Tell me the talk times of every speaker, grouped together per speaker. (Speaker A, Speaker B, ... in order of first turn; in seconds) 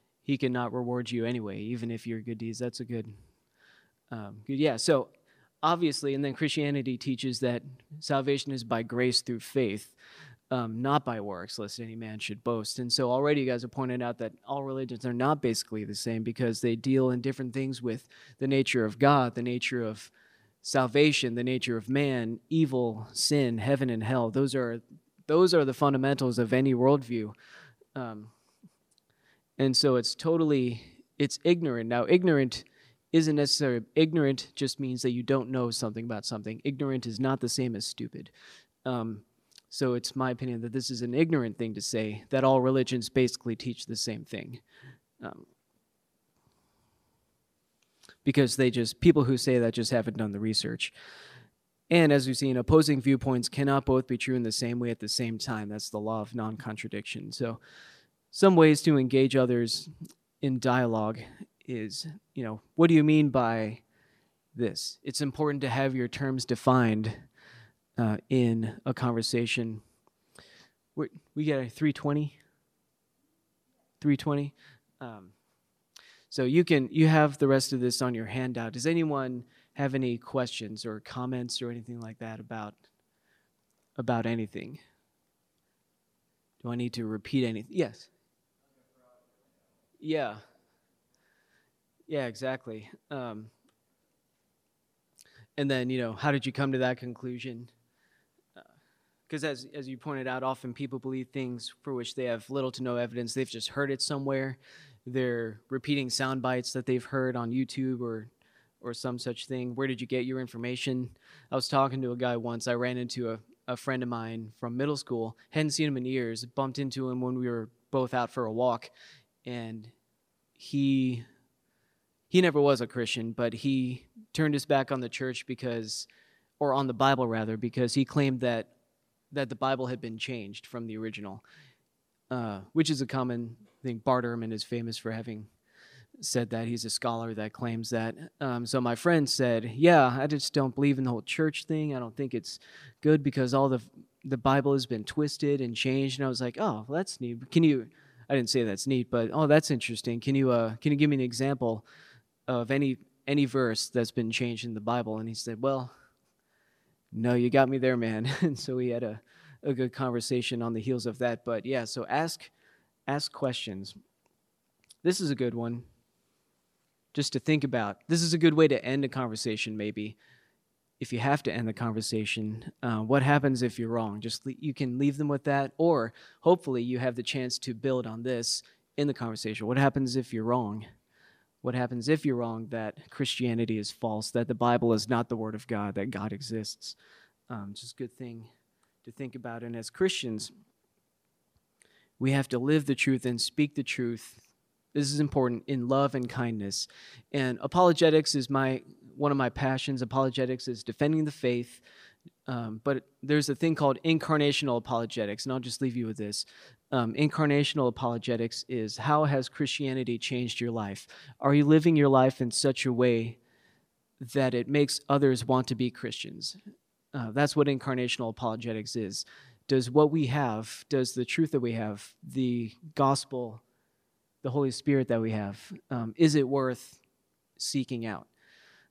Speaker A: 0.2-3.1, 4.1-5.1, 5.6-9.9, 10.5-20.1, 20.6-27.3, 27.9-28.3, 29.6-38.3, 38.8-44.6, 45.2-45.5, 48.2-50.9, 51.9-57.6, 58.3-59.9, 60.4-63.8, 64.5-67.2, 68.0-69.8, 71.0-72.4, 74.0-75.3, 76.3-82.8, 84.0-84.8, 86.6-88.1, 90.0-90.4, 92.1-93.5, 95.6-97.7, 99.3-118.9, 119.4-119.9, 120.6-121.2, 122.3-126.1, 126.6-128.7, 129.3-131.4, 132.3-135.5, 136.2-151.8, 152.5-155.9, 157.1-162.5, 163.1-164.0, 165.0-165.9, 167.1-170.2, 171.0-180.8, 181.6-187.0, 187.5-188.5, 189.0-190.5, 192.2-201.8, 202.5-213.4, 214.2-216.6, 217.1-223.6, 224.4-227.0, 227.6-228.3